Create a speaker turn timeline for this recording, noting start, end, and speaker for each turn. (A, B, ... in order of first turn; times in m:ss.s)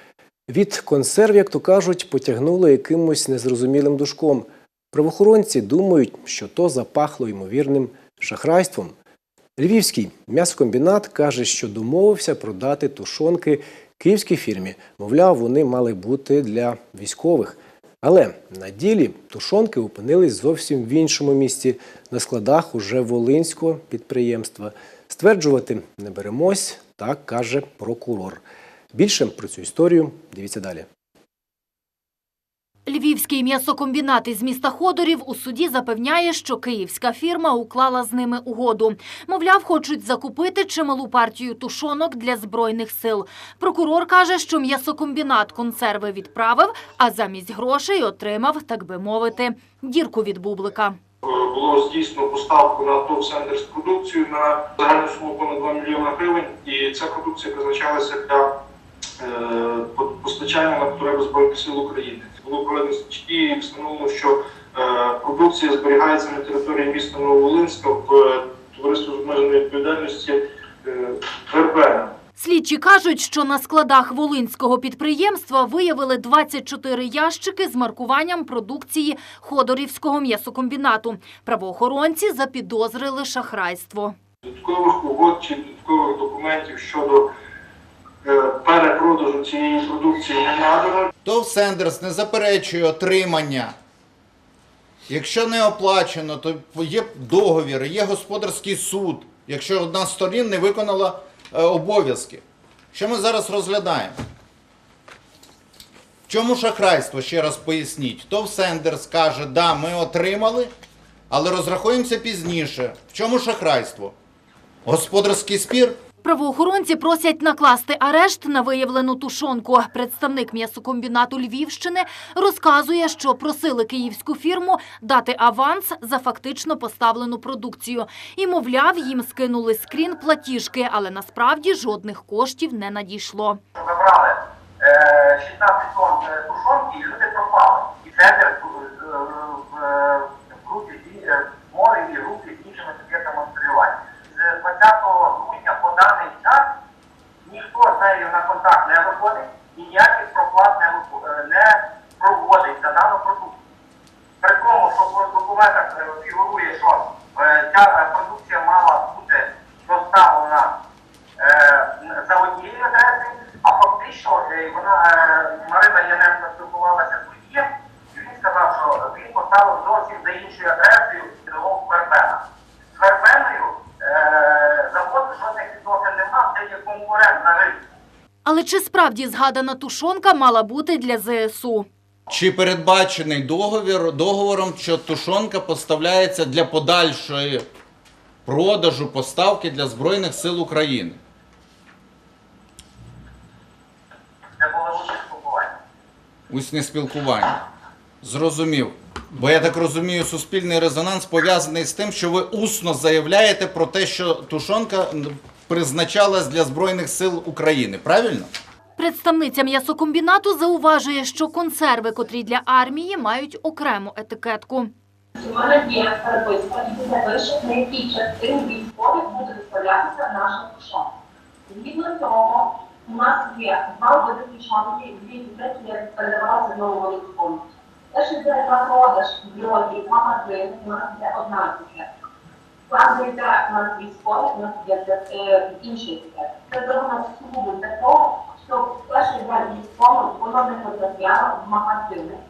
0:00.5-0:09.0 A
0:09.6-0:28.4 A
0:28.9-0:30.9 A
0:32.9-0:51.0 B
0:51.2-0:58.6 C
0:59.2-1:12.2 C
1:12.4-1:24.2 B
1:24.4-1:27.3 C
1:28.2-1:31.1 C
1:31.2-1:33.8 D
1:35.1-1:44.2 D
1:46.3-1:50.7 D
1:51.3-1:54.2 D
1:54.8-1:56.0 D
1:56.2-2:13.6 B
2:13.8-2:26.7 E
2:27.4-2:33.6 E
2:34.4-2:40.8 E
2:41.4-2:52.4 E
2:53.0-2:57.8 E
2:58.4-3:01.9 B
3:02.3-3:07.6 D
3:08.4-3:11.2 D
3:14.6-3:15.7 E
3:16.5-3:17.6 D
3:18.2-3:28.5 D
3:29.0-3:34.9 B
3:35.4-3:41.1 F
3:41.7-3:52.1 F
3:52.9-4:02.4 F